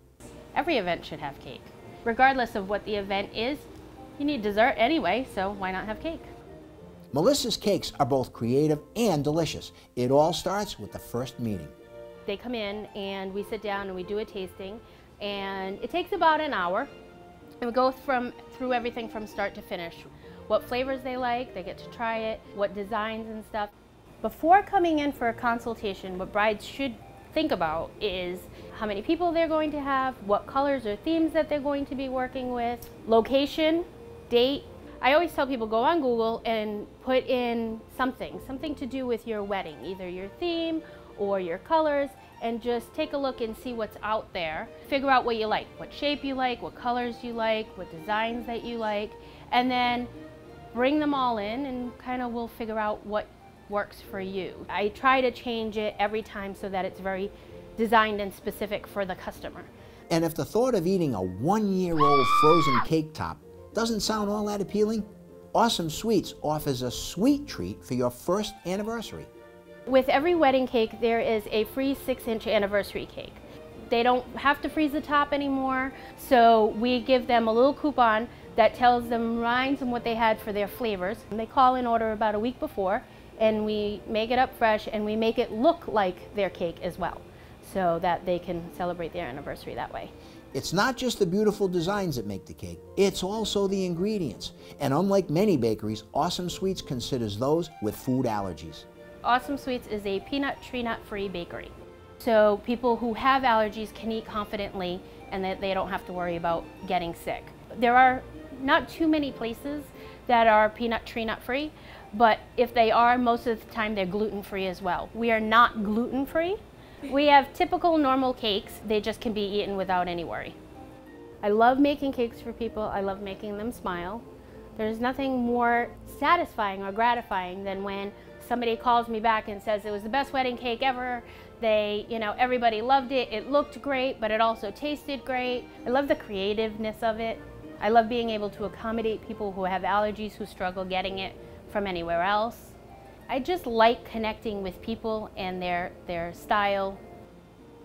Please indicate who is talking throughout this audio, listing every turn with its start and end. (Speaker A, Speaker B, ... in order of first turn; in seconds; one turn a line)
Speaker A: 0.5-3.7
Speaker A: 4.2-6.3
Speaker B: 7.1-11.7
Speaker A: 12.2-16.9
Speaker A: 17.6-50.1
Speaker A: 50.7-59.7
Speaker B: 60.1-69.3
Speaker A: 69.9-90.1
Speaker B: 90.5-98.8
Speaker A: 99.2-120.5
Speaker A: 121.4-124.2
Speaker A: 124.8-142.8
Speaker A: 143.3-147.0